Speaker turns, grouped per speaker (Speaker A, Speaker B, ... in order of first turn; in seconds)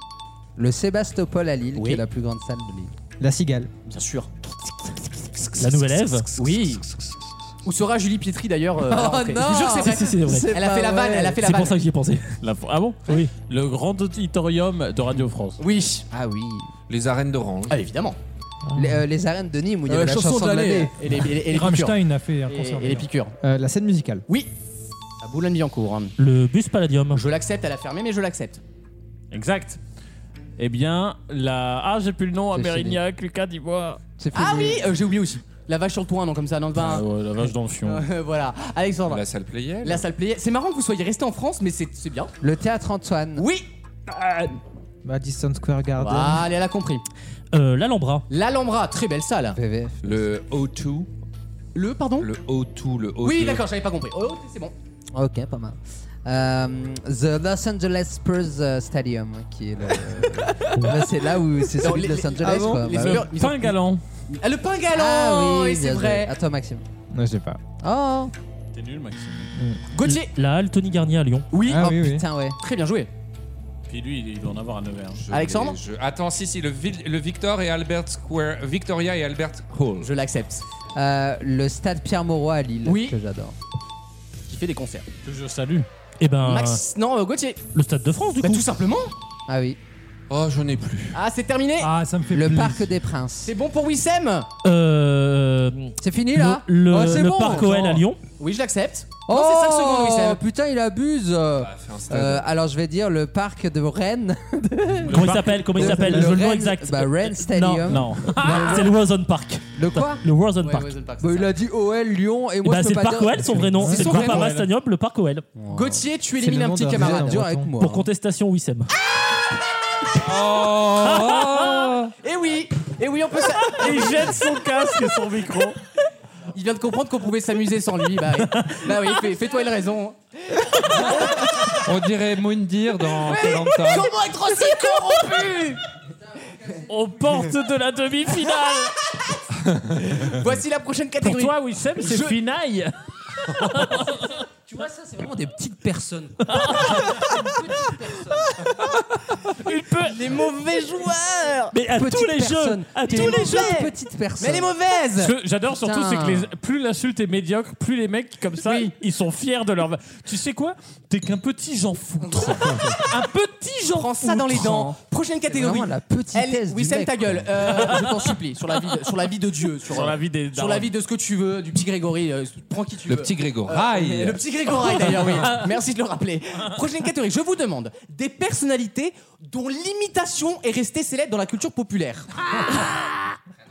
Speaker A: 0.6-2.9, 4.4-6.2, 8.9-11.5, 16.1-16.7, 18.7-20.9, 32.5-33.0, 34.2-34.9, 42.4-43.5, 49.5-50.2, 55.1-63.3, 64.9-66.8, 67.8-68.3, 71.7-72.6, 80.9-83.5, 89.5-89.8, 92.3-93.5, 96.0-98.0, 99.3-108.9, 109.7-110.2, 111.2-114.1, 115.6-116.0, 116.9-118.1, 144.7-148.7, 151.9-154.7, 155.7-156.5, 164.3-165.0, 165.5-167.5
Speaker B: 1.7-2.0, 3.9-4.3, 6.3-6.8, 7.6-11.8, 15.6-16.1, 17.7-18.2, 19.9-23.3, 25.2-26.1, 27.1-28.6, 34.3-37.0, 37.8-39.2, 39.8-42.3, 43.4-44.5, 46.0-47.0, 48.3-49.6, 51.7-52.3, 53.2-54.7, 61.8-63.8, 64.3-66.3, 69.9-70.3, 71.5-72.0, 72.6-73.1, 75.3-75.8, 80.0-80.6, 82.8-83.1, 84.5-85.1, 86.4-87.6, 88.4-89.1, 91.1-91.9, 93.5-94.5, 98.4-100.4, 110.6-111.5, 114.0-114.3, 115.7-117.4, 122.2-124.4, 126.5-131.8, 133.2-135.8, 140.0-142.3, 150.0-151.7, 153.1-155.3, 158.6-158.9, 162.2-162.8, 163.9-182.3
Speaker C: 3.2-3.7, 23.4-24.2, 45.0-46.5, 62.4-62.9, 67.1-67.6, 71.7-72.2, 105.8-106.4, 113.5-114.2, 116.3-117.8
Speaker D: 5.6-6.3, 9.8-10.5, 11.4-12.4, 13.1-13.3, 26.2-27.2, 47.5-48.2, 70.0-71.5, 86.2-86.8, 87.7-88.6, 94.6-98.2, 105.1-110.9, 112.6-115.5, 117.8-118.9, 151.7-153.7
Speaker E: 12.4-15.6, 29.3-29.8, 30.6-34.0, 36.8-38.1, 62.9-64.0, 68.7-69.5, 73.9-75.2, 85.2-85.9, 105.1-105.9, 107.8-108.8, 113.9-114.7, 123.7-125.8, 128.6-128.9, 136.9-139.0, 141.2-144.2, 146.6-147.2, 149.6-150.1, 155.2-164.1, 169.9-170.9
Speaker F: 16.9-17.8, 39.1-40.1, 50.0-51.1, 52.2-53.6, 75.1-80.1, 90.3-91.2, 101.5-102.5, 120.1-122.1, 131.8-134.1, 173.1-175.5
Speaker G: 21.4-23.1, 91.8-92.8